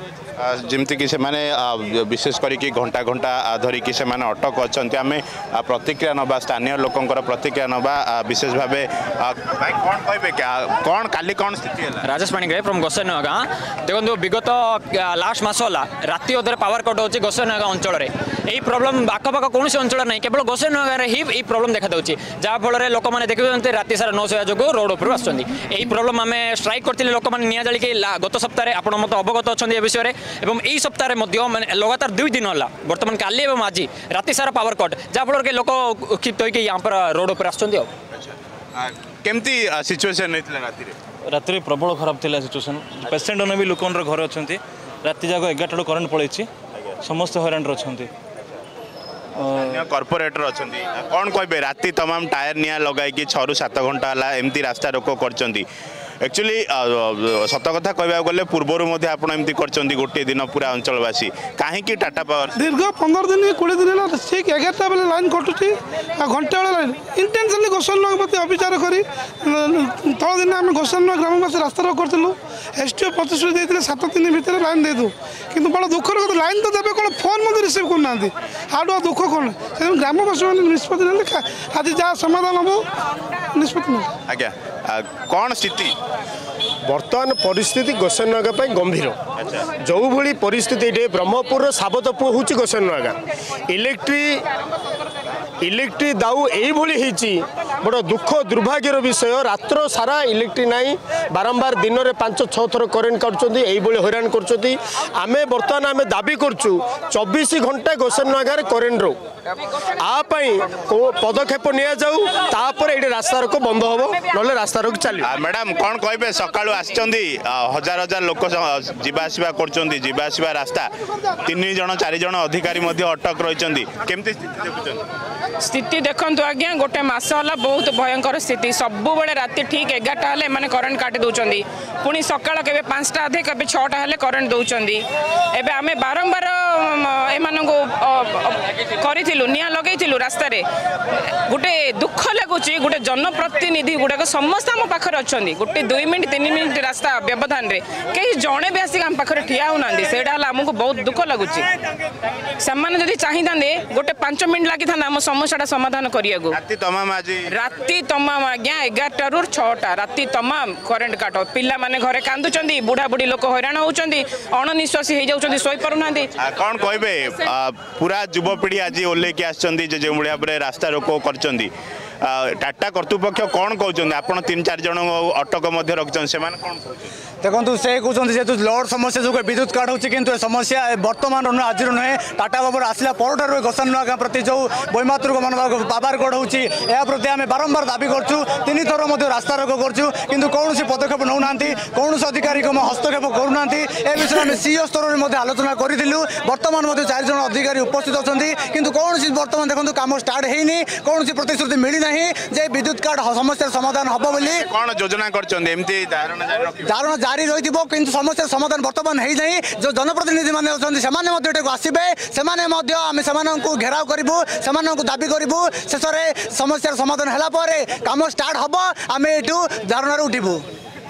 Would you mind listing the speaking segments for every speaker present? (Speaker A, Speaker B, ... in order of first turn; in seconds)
Speaker A: 0.4-12.0, 38.8-40.9, 49.6-55.6, 56.2-62.6, 84.3-85.9, 115.2-125.0, 156.5-157.5, 166.4-171.7, 172.2-177.1, 204.3-206.9
Speaker B: 12.0-37.9
Speaker C: 41.3-46.5, 47.0-48.1
Speaker D: 62.6-82.8, 83.5-84.1
Speaker E: 86.8-89.2, 89.7-93.2, 93.7-94.4, 95.6-109.2, 109.9-115.3
Speaker F: 125.6-135.0, 135.6-151.7, 152.6-156.6, 157.5-166.3
Speaker G: 177.4-204.7, 206.9-220.6